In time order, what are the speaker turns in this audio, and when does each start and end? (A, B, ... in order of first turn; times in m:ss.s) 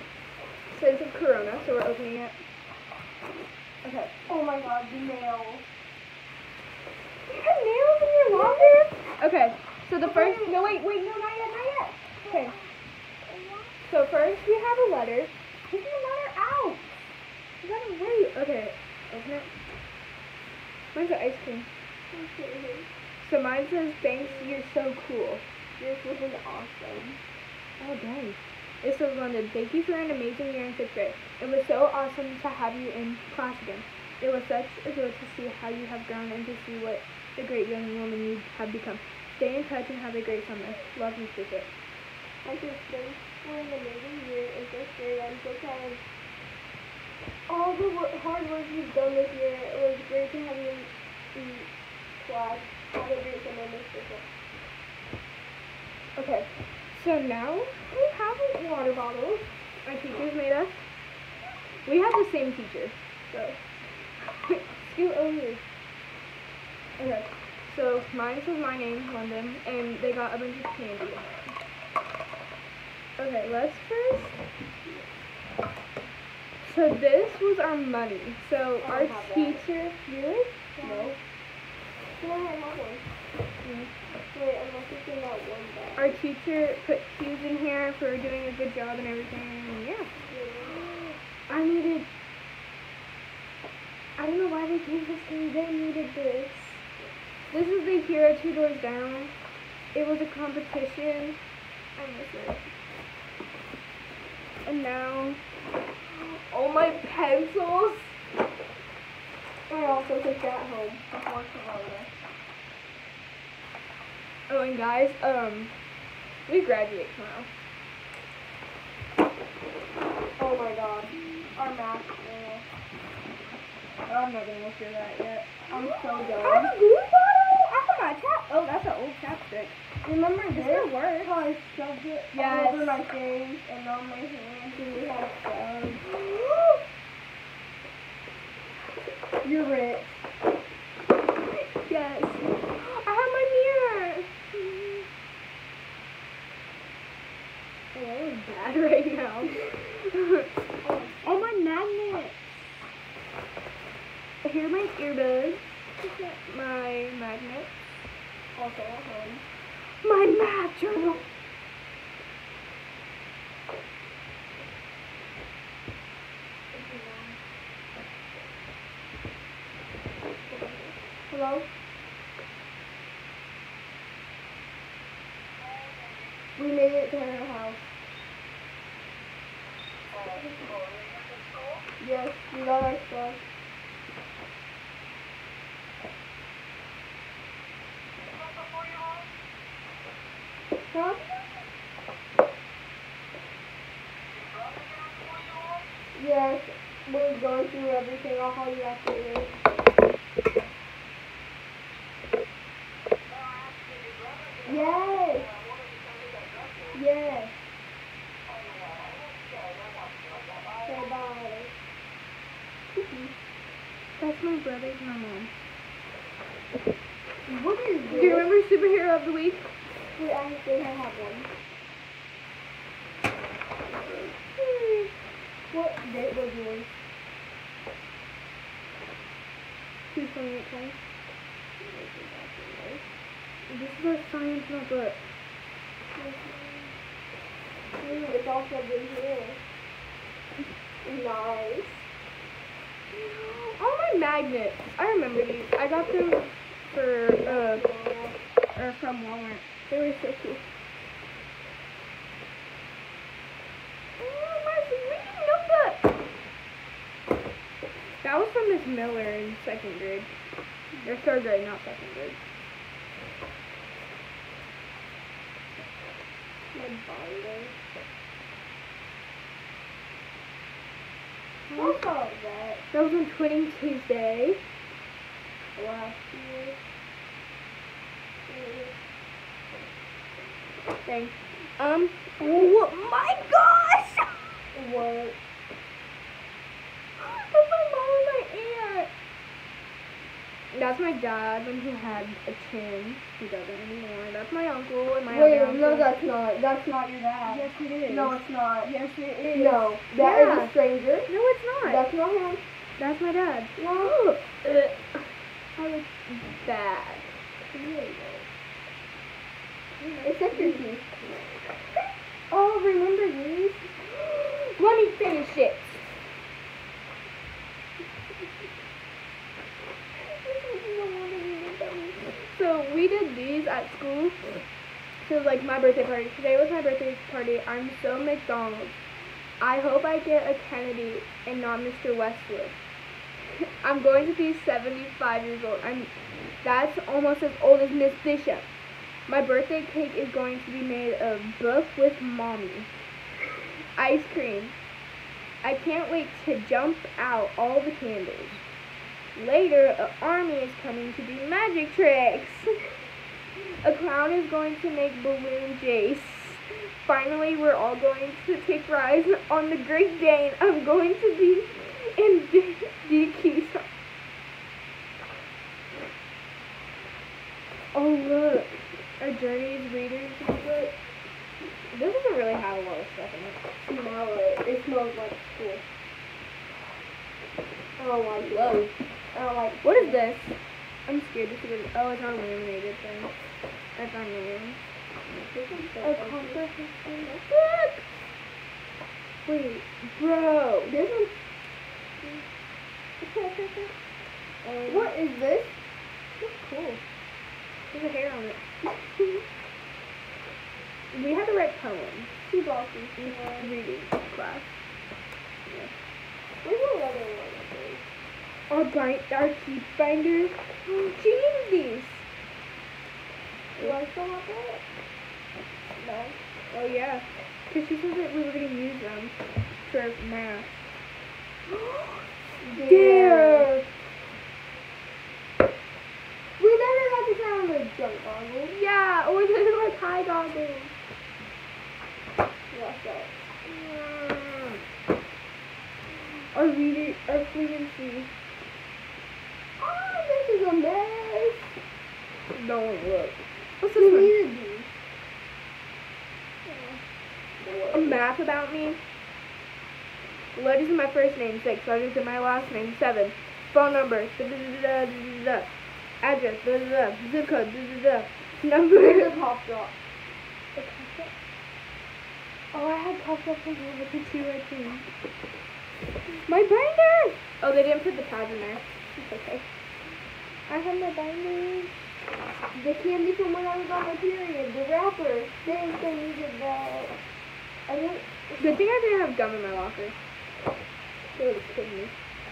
0:00.7-0:02.4 A
0:03.8-0:04.1 A
0:04.3-0:05.6 B
0:07.3-0:12.6 A
0:08.3-0:08.8 B
0:10.0-0:10.8 B
0:12.1-0:12.7 B
0:13.2-0:13.8 B
0:13.9-0:16.8 A
0:17.6-0:19.5 A
0:20.9-0:21.7 A
0:22.1-0:22.9 B
0:23.2-0:25.4 A
0:25.8-0:27.2 B
0:27.8-0:41.7 A
0:42.4-0:46.0 B
0:47.5-0:54.3 B
0:56.2-1:00.7 A
1:01.9-1:03.6 A
1:04.2-1:05.6 A
1:07.0-1:11.6 A
1:13.2-1:14.4 A
1:16.6-1:21.2 A
1:18.8-1:19.6 B
1:20.8-1:21.2 B
1:22.2-1:23.1 B
1:23.6-1:23.9 A
1:24.3-1:26.2 B
1:26.0-1:30.2 A
1:30.3-1:30.8 B
1:30.7-1:32.1 A
1:34.2-1:36.8 A
1:37.5-1:39.3 A
1:39.9-1:41.4 A
1:42.0-1:42.7 A
1:44.6-1:45.4 A
1:46.0-1:48.1 A
1:49.7-1:52.1 B
1:54.5-1:55.7 A
1:56.5-1:57.5 A
2:00.4-2:02.7 B
2:04.1-2:09.8 A
2:05.7-2:06.7 B
2:10.0-2:16.0 B
2:10.5-2:11.3 A
2:12.3-2:13.0 A
2:16.0-2:16.8 A
2:19.4-2:20.2 B
2:21.6-2:25.1 A
2:27.9-2:30.5 A
2:30.8-2:31.6 B
2:31.2-2:32.6 A
2:34.4-2:37.7 A
2:38.6-2:39.4 B
2:40.0-2:41.2 A
2:46.7-2:47.4 A
2:50.5-2:50.8 A
2:51.3-2:51.7 B
2:56.6-2:57.8 B
3:02.0-3:03.4 B
3:10.9-3:11.4 B
3:16.1-3:19.6 B
3:24.6-3:25.6 B
3:26.9-3:27.5 B
3:30.8-3:31.7 B
3:32.9-3:33.4 B
3:34.2-3:35.5 A
3:37.5-3:38.5 B
3:38.1-3:39.7 A
3:40.2-3:41.5 B
3:43.9-3:44.3 B
3:44.6-3:45.1 A
3:45.7-3:46.9 B
3:50.1-3:51.0 A
3:51.8-3:53.0 B
3:53.7-3:55.2 A
3:56.2-3:56.9 B
3:58.0-3:59.6 B
4:01.0-4:02.0 B
4:03.1-4:07.9 A
4:07.4-4:08.4 B
4:08.7-4:10.6 A
4:14.2-4:16.1 A
4:18.2-4:20.3 A
4:21.0-4:22.4 A
4:26.7-4:27.7 B
4:31.7-4:32.0 A
4:31.7-4:32.8 B
4:32.9-4:34.6 A
4:35.8-4:36.8 B
4:38.5-4:39.0 B
4:41.0-4:44.6 A
4:44.7-4:45.4 B
4:47.2-4:49.1 A
4:50.7-4:56.1 A
4:55.3-4:58.9 B
4:57.4-5:00.7 A
4:59.5-5:01.3 B
5:01.3-5:02.0 A
5:01.8-5:02.6 B
5:03.0-5:07.3 A
5:03.8-5:04.2 B
5:07.7-5:08.4 B
5:10.0-5:10.8 A
5:10.2-5:11.1 B
5:12.5-5:13.9 B
5:14.2-5:16.1 A
5:20.2-5:24.5 A
5:25.2-5:29.0 A
5:29.6-5:32.8 A
5:33.6-5:36.1 A
5:36.6-5:38.7 A
5:39.3-5:42.9 A
5:44.0-5:44.8 A
5:45.6-5:48.6 A
5:49.4-5:52.7 A
5:53.6-6:03.9 A
6:07.9-6:10.9 A
6:11.9-6:13.6 A
6:13.8-6:15.8 B
6:18.0-6:18.8 B
6:18.4-6:18.9 A
6:19.3-6:20.2 B
6:19.8-6:20.6 A
6:21.1-6:23.3 A
6:24.0-6:24.8 A
6:25.5-6:26.6 B
6:26.0-6:28.0 A
6:29.5-6:30.9 A
6:30.9-6:31.3 B
6:33.2-6:33.9 B
6:34.6-6:35.1 A
6:34.9-6:35.8 B
6:36.4-6:37.0 A
6:37.9-6:38.6 A
6:41.1-6:42.3 A
6:42.4-6:43.7 B
6:43.2-6:44.7 A
6:45.7-6:45.9 A
6:46.6-6:48.0 B
6:48.7-6:52.2 A
6:53.8-6:54.8 B
6:56.0-6:56.4 B
6:56.7-7:00.8 A
7:01.7-7:03.7 A
7:02.6-7:03.9 B
7:06.6-7:08.8 B
7:08.7-7:10.9 A
7:12.7-7:13.3 B
7:13.6-7:14.8 A
7:16.5-7:18.3 A
7:19.8-7:21.8 B
7:22.5-7:24.4 A
7:24.0-7:24.9 B
7:26.6-7:27.0 A
7:27.6-7:28.2 B
7:27.9-7:29.0 A
7:30.5-7:35.7 A
7:36.2-7:39.4 A
7:39.0-7:39.9 B
7:40.8-7:41.3 A
7:42.7-7:45.1 A
7:46.4-7:49.7 A
7:50.7-7:52.1 A
7:52.7-7:57.2 B
7:57.9-7:58.8 B
7:58.6-8:00.2 A
8:01.4-8:02.1 A